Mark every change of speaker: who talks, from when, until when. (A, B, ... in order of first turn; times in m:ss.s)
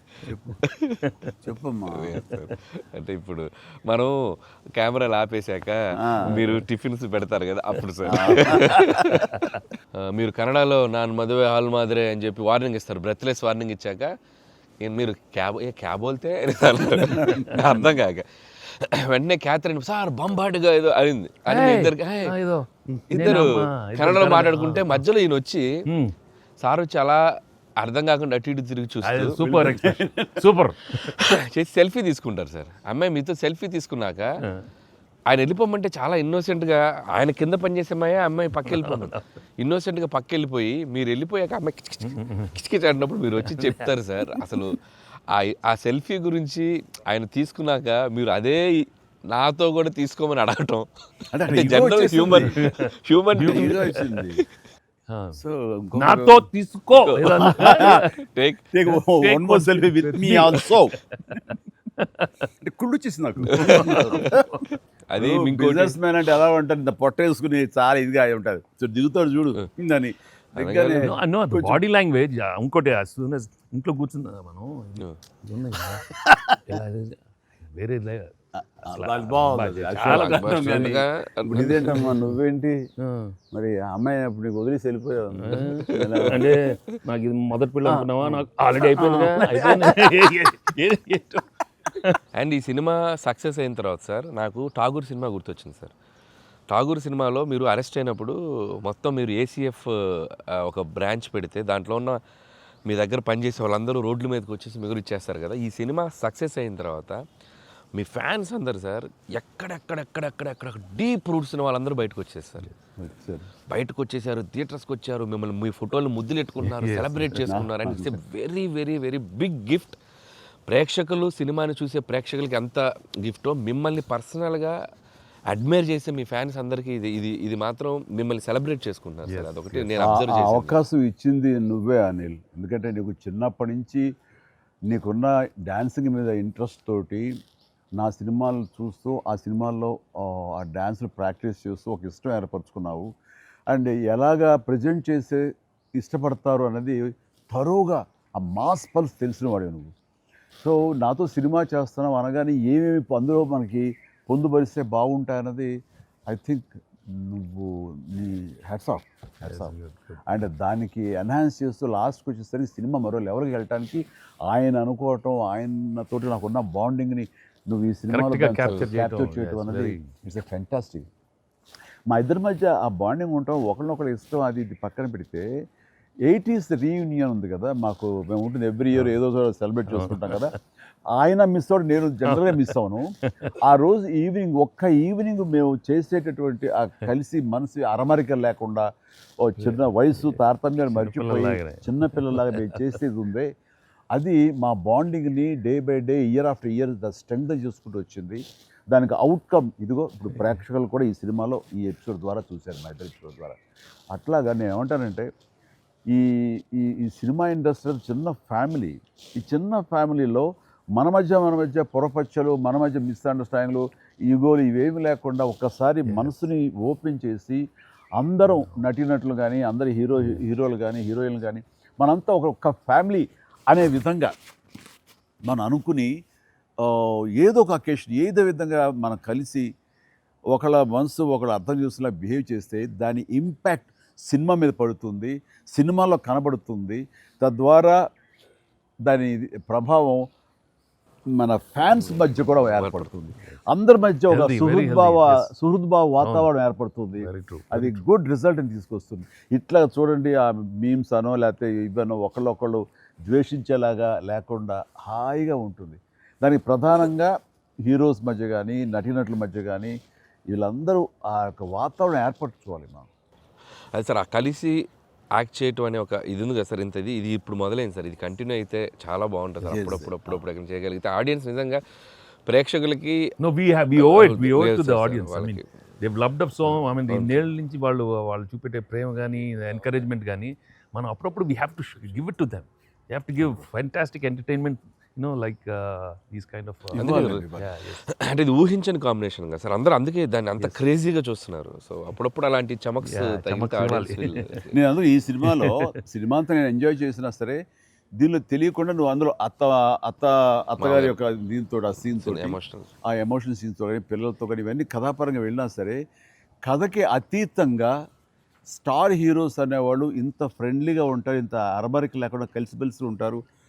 0:00.3-0:01.3 A
0:00.6-0:01.1 B
0:01.4-0:02.2 C
0:02.0-0:04.1 B
0:04.8-0:14.1 B
0:06.0-0:06.4 C
0:06.3-0:06.6 A
0:08.0-0:09.1 C
0:08.2-0:08.5 A
0:09.1-0:09.5 A
0:14.8-0:22.3 B
0:17.0-0:17.5 C
0:21.5-0:25.0 A
0:23.1-0:23.5 B
0:24.0-0:25.6 B
0:25.9-0:26.1 A
0:26.6-0:27.2 B
0:27.8-0:29.4 B
0:29.0-0:31.2 A
0:29.4-0:30.4 C
0:31.0-0:34.3 B
0:35.3-0:44.8 B
0:38.6-0:39.2 A
0:42.0-0:42.5 A
0:43.4-0:44.4 A
0:45.3-0:50.9 B
0:51.3-0:52.6 C
0:51.5-0:53.8 B
0:52.3-0:53.9 A
0:53.4-0:54.4 C
0:55.1-0:55.4 A
0:55.4-0:56.4 C
0:56.0-0:58.1 A
0:56.9-0:58.6 B
0:57.3-0:58.0 C
0:58.7-1:00.9 C
0:58.9-1:02.4 A
1:02.6-1:04.5 C
1:03.4-1:04.7 A
1:03.5-1:04.2 B
1:05.1-1:06.0 B
1:05.2-1:11.8 C
1:10.5-1:11.1 B
1:11.0-1:16.1 A
1:16.2-1:16.7 C
1:16.6-1:17.2 A
1:17.7-1:18.3 A
1:18.6-1:22.8 C
1:18.8-1:21.0 A
1:20.1-1:22.0 B
1:21.6-1:22.3 A
1:23.0-1:23.3 A
1:23.5-1:26.5 C
1:25.4-1:30.9 A
1:25.5-1:26.5 B
1:27.8-1:31.4 C
1:32.3-1:35.9 B
1:36.7-1:42.2 B
1:42.9-1:47.2 B
1:48.0-1:52.7 B
1:53.0-1:53.5 C
1:53.7-2:00.0 B
1:56.6-1:57.4 A
1:57.3-1:58.2 C
2:00.7-2:04.7 B
2:05.5-2:10.8 B
2:09.2-2:09.9 A
2:10.0-2:14.0 C
2:14.9-2:17.3 C
2:18.0-2:23.1 C
2:23.7-2:25.4 C
2:26.0-2:29.9 C
2:30.6-2:35.7 C
2:36.3-2:39.7 C
2:39.4-2:40.2 A
2:40.3-2:51.0 C
2:48.1-2:50.1 A
2:52.1-2:55.4 C
2:56.3-3:00.6 C
2:59.9-3:00.5 A
3:01.1-3:03.1 C
3:02.3-3:02.7 A
3:03.3-3:03.5 A
3:03.6-3:08.8 C
3:09.4-3:13.5 C
3:09.6-3:10.4 A
3:10.9-3:13.0 A
3:14.1-3:23.6 C
3:20.3-3:20.6 A
3:24.1-3:25.3 C
3:26.1-3:37.6 C
3:36.0-3:36.3 A
3:38.2-3:44.3 C
3:38.4-3:38.8 A
3:45.5-3:46.1 C
3:46.8-3:49.6 C
3:50.5-3:58.0 C
3:59.0-4:00.2 C
4:01.4-4:17.3 C
4:02.0-4:03.1 B
4:04.3-4:05.5 A
4:06.2-4:06.5 A
4:07.2-4:08.0 A
4:17.8-4:19.9 C
4:20.5-4:23.1 C
4:23.9-4:24.7 B
4:25.4-4:31.8 B
4:29.6-4:30.4 C
4:32.5-4:33.2 B
4:33.4-4:48.0 A
4:34.0-4:35.6 B
4:36.6-4:37.4 B
4:46.9-4:47.7 C
4:47.0-4:47.4 B
4:48.1-4:54.7 B
4:53.0-4:54.4 A
4:54.7-4:57.6 C
4:55.5-4:55.8 A
4:58.2-5:02.6 C
5:00.8-5:01.2 B
5:02.2-5:02.9 B
5:03.1-5:06.0 C
5:06.7-5:07.9 C
5:08.7-5:13.4 C